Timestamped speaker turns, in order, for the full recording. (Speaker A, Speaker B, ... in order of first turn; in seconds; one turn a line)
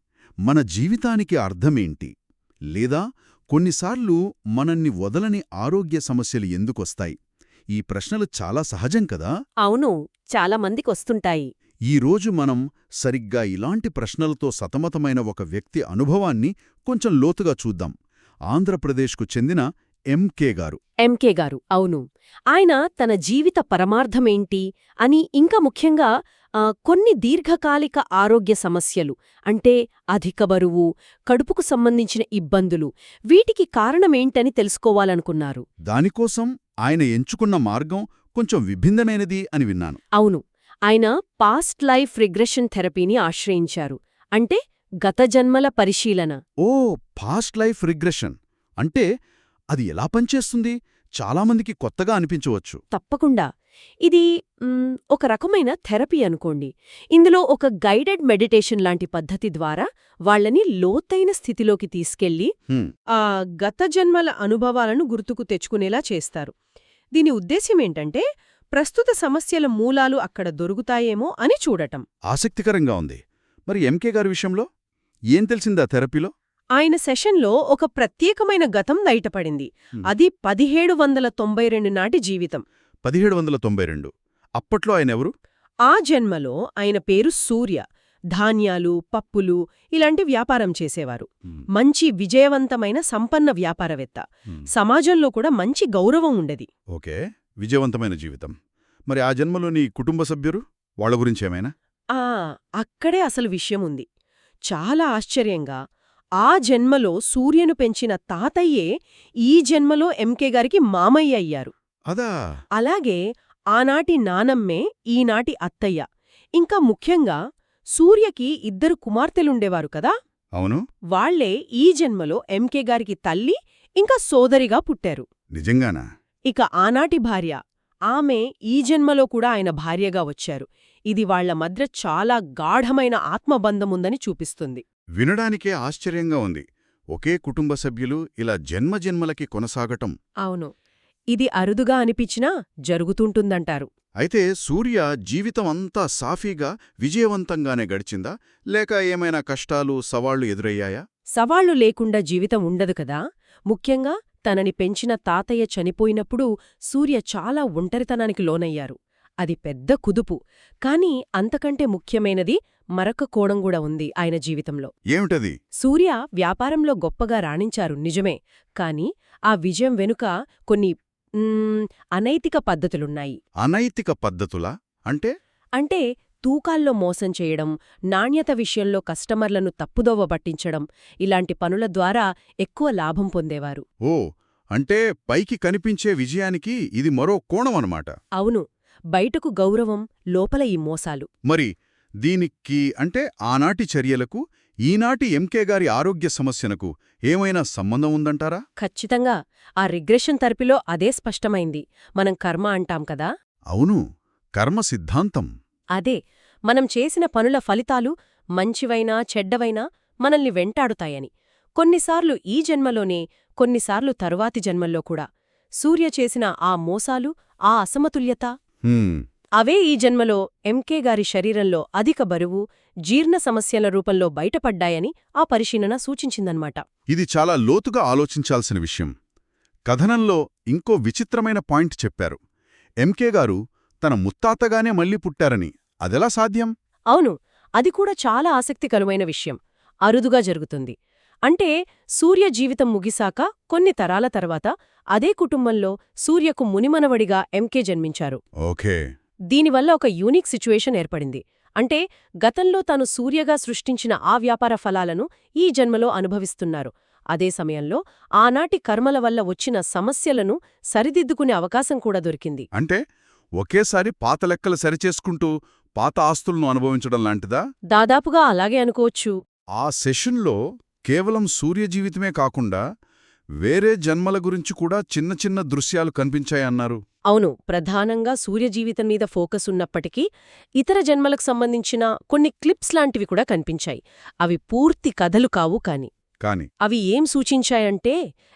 Speaker A: 0.5-2.1
Speaker A: 2.7-7.1
Speaker A: 7.7-9.3
Speaker B: 9.6-11.5
Speaker A: 11.9-17.9
Speaker A: 18.5-20.8
Speaker B: 21.0-35.6
Speaker A: 35.9-40.0
Speaker B: 40.2-46.4
Speaker A: 46.6-49.0
Speaker A: 49.7-52.8
Speaker B: 52.9-53.5
Speaker B: 54.0-62.5
Speaker B: 63.1-66.5
Speaker B: 67.1-68.2
Speaker B: 68.7-72.0
Speaker A: 72.3-74.6
Speaker A: 75.3-76.3
Speaker B: 76.8-82.6
Speaker A: 83.0-85.3
Speaker B: 85.9-87.8
Speaker B: 88.3-96.7
Speaker A: 96.9-98.5
Speaker A: 99.1-101.7
Speaker B: 102.1-104.0
Speaker B: 104.7-105.8
Speaker B: 106.4-108.9
Speaker B: 109.4-111.7
Speaker B: 112.8-113.2
Speaker B: 113.7-116.0
Speaker B: 116.6-117.4
Speaker B: 118.0-120.1
Speaker B: 121.1-125.3
Speaker A: 125.5-126.0
Speaker B: 126.5-127.6
Speaker B: 128.1-134.8
Speaker A: 135.2-140.1
Speaker B: 140.4-140.7
Speaker B: 141.3-143.9
Speaker A: 144.2-151.0
Speaker B: 151.3-153.2
Speaker B: 153.7-164.9
Speaker A: 165.1-165.5
Speaker B: 165.8-173.4
Speaker A: 173.6-175.3
Speaker B: 175.8-183.8
Speaker A: 184.7-188.1
Speaker B: 188.4-191.3
Speaker A: 192.2-198.6
Speaker B: 198.8-203.3
Speaker A: 203.7-204.0
Speaker A: 204.6-205.5
Speaker B: 205.9-215.2
Speaker B: 215.8-218.5
Speaker A: 218.9-219.2
Speaker B: 219.6-226.8
Speaker A: 227.1-229.1
Speaker A: 229.9-232.4
Speaker A: 233.0-236.7
Speaker B: 237.1-240.9
Speaker B: 241.4-248.4
Speaker A: 248.6-249.0
Speaker B: 249.5-262.7
Speaker A: 262.7-263.0
Speaker A: 263.6-267.6
Speaker B: 267.9-269.3
Speaker A: 269.8-272.8
Speaker A: 273.6-277.0
Speaker B: 277.3-280.2
Speaker B: 280.8-286.1
Speaker A: 286.4-286.7
Speaker B: 286.8-288.1